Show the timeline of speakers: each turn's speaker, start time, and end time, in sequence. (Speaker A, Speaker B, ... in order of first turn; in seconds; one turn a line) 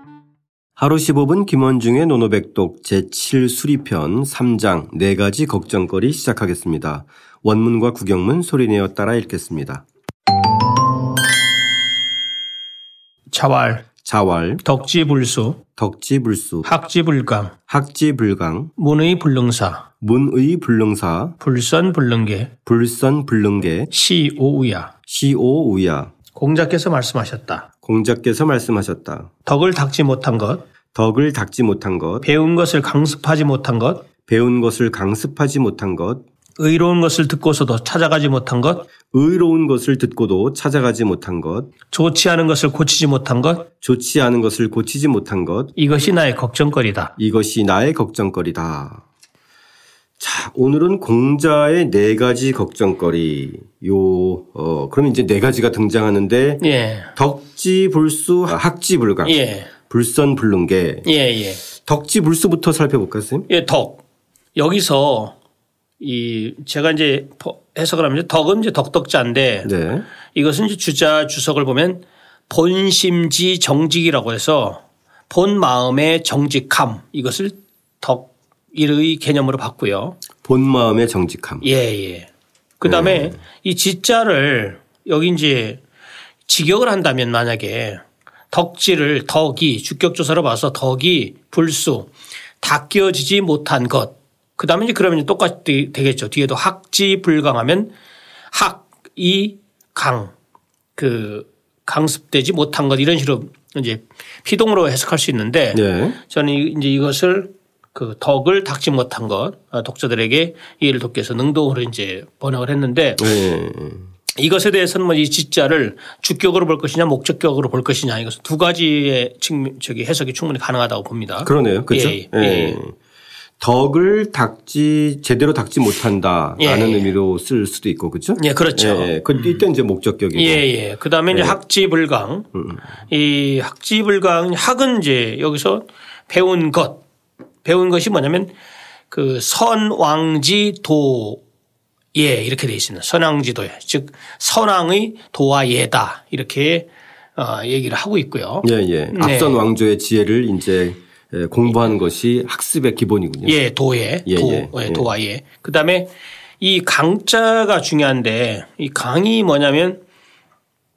Speaker A: 0.8-9.8
Speaker B: 13.3-13.9
Speaker A: 14.0-14.6
Speaker B: 14.6-15.6
Speaker A: 15.8-16.7
Speaker B: 16.6-17.6
Speaker A: 17.7-18.7
Speaker B: 18.8-19.9
Speaker A: 20.0-21.4
Speaker B: 21.4-22.5
Speaker A: 22.6-23.9
Speaker B: 23.9-24.9
Speaker A: 25.1-26.1
Speaker B: 26.4-27.7
Speaker A: 27.8-29.3
Speaker B: 29.5-30.6
Speaker A: 30.9-32.3
Speaker B: 32.2-34.1
Speaker A: 34.2-36.2
Speaker B: 36.6-38.9
Speaker A: 39.1-41.7
Speaker B: 41.9-43.7
Speaker A: 43.8-45.7
Speaker B: 45.8-47.1
Speaker A: 47.2-49.0
Speaker A: 50.2-61.1
Speaker B: 56.6-57.1
Speaker B: 59.2-59.7
Speaker B: 61.0-61.6
Speaker A: 61.7-63.5
Speaker B: 63.5-64.0
Speaker B: 64.6-65.4
Speaker B: 66.0-69.7
Speaker A: 69.6-70.1
Speaker B: 70.3-80.2
Speaker A: 80.4-81.7
Speaker B: 81.6-85.8
Speaker A: 82.8-83.4
Speaker B: 86.5-97.9
Speaker B: 98.5-100.3
Speaker B: 101.0-113.3
Speaker A: 105.7-106.2
Speaker A: 113.2-114.1
Speaker B: 114.4-122.8
Speaker A: 121.4-123.0
Speaker A: 123.6-130.6
Speaker B: 126.6-127.1
Speaker B: 128.4-129.2
Speaker B: 130.3-132.5
Speaker A: 131.3-131.6
Speaker A: 132.6-132.8
Speaker B: 133.1-137.0
Speaker B: 137.6-138.5
Speaker B: 139.1-141.4
Speaker B: 142.1-149.6
Speaker A: 148.6-153.6
Speaker B: 153.4-160.0
Speaker A: 154.3-155.1